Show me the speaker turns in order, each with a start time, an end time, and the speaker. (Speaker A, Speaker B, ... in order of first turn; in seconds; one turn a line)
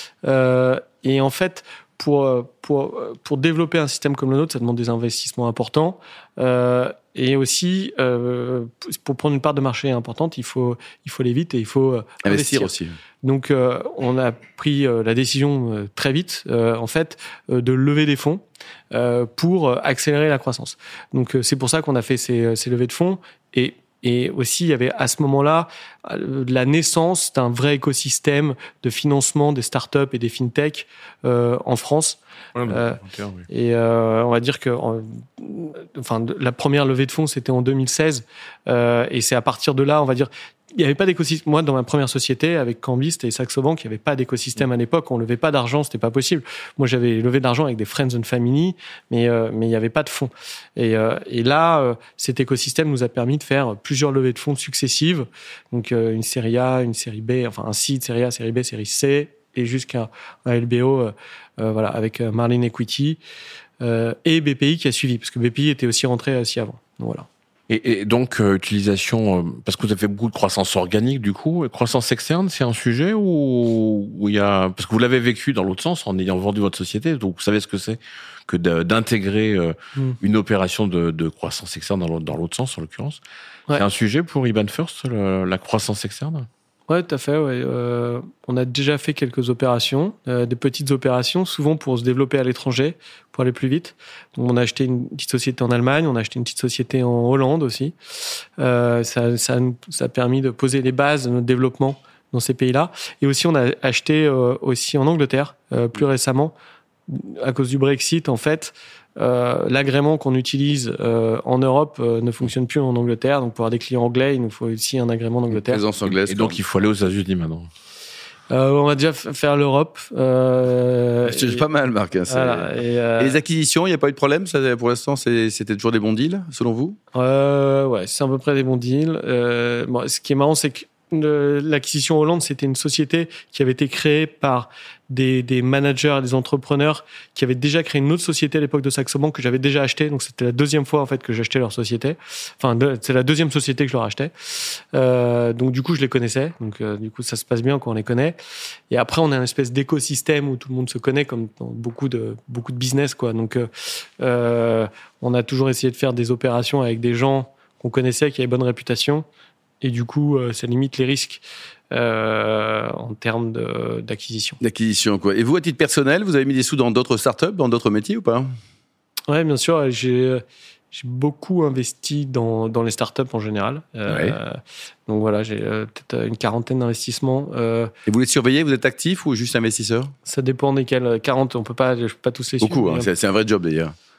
Speaker A: 0.2-12.7
Speaker B: 12.2-12.9
Speaker A: 13.2-63.2
Speaker C: 32.5-33.5
Speaker A: 63.8-67.3
Speaker C: 67.7-83.2
Speaker C: 83.7-86.5
Speaker A: 86.9-98.0
Speaker A: 98.6-106.5
Speaker A: 107.1-115.8
Speaker B: 115.5-116.6
Speaker C: 116.1-117.7
Speaker A: 118.5-121.7
Speaker B: 121.3-127.0
Speaker A: 122.3-123.4
Speaker A: 127.1-148.4
Speaker A: 148.9-159.3
Speaker A: 159.8-164.6
Speaker B: 164.6-168.5
Speaker A: 169.3-170.4
Speaker A: 170.9-177.9
Speaker B: 174.1-174.3
Speaker B: 178.1-180.1
Speaker A: 180.3-183.1
Speaker B: 182.6-183.9